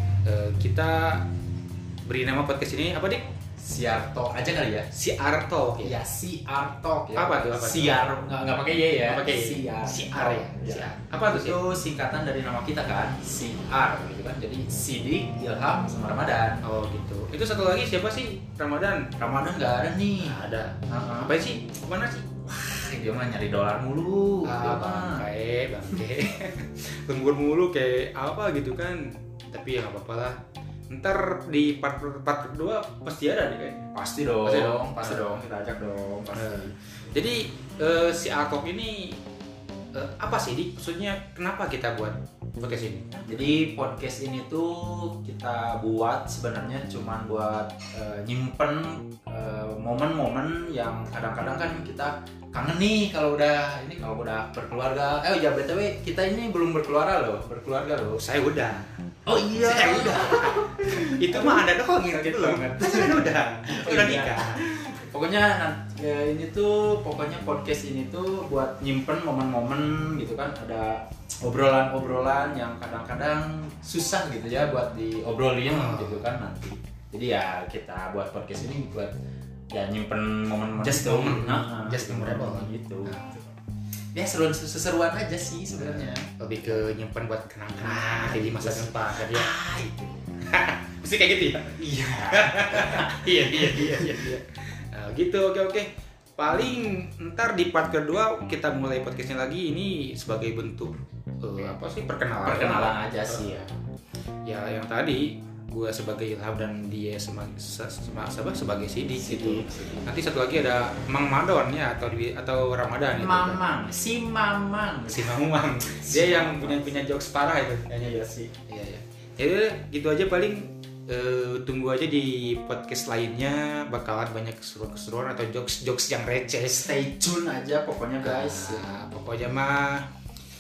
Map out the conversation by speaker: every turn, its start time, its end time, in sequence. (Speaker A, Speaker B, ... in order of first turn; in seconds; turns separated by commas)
Speaker A: 0.2-1.3, Speaker A: 2.0-3.2, Speaker B: 3.6-4.9, Speaker A: 4.9-6.0, Speaker B: 5.8-16.6, Speaker A: 7.2-8.1, Speaker A: 9.0-11.6, Speaker A: 16.6-19.1, Speaker B: 19.2-21.4, Speaker A: 20.2-22.5, Speaker B: 22.5-25.2, Speaker A: 24.4-30.4, Speaker A: 30.9-33.9, Speaker B: 33.9-36.7, Speaker A: 34.4-35.4, Speaker A: 36.3-39.2, Speaker A: 39.9-43.4, Speaker B: 43.2-58.2, Speaker A: 58.2-58.9, Speaker B: 59.3-79.1, Speaker A: 59.5-64.7, Speaker A: 75.7-76.3, Speaker B: 79.7-83.2, Speaker A: 80.8-83.4, Speaker B: 84.1-86.3, Speaker A: 85.8-89.5, Speaker B: 87.9-90.3, Speaker A: 90.5-103.7, Speaker B: 91.8-94.3, Speaker B: 102.4-103.7, Speaker A: 104.5-113.7, Speaker B: 109.1-110.1, Speaker B: 113.2-117.1, Speaker A: 115.1-118.0, Speaker B: 117.9-118.5, Speaker A: 118.7-127.0, Speaker B: 126.7-128.8, Speaker A: 128.2-130.1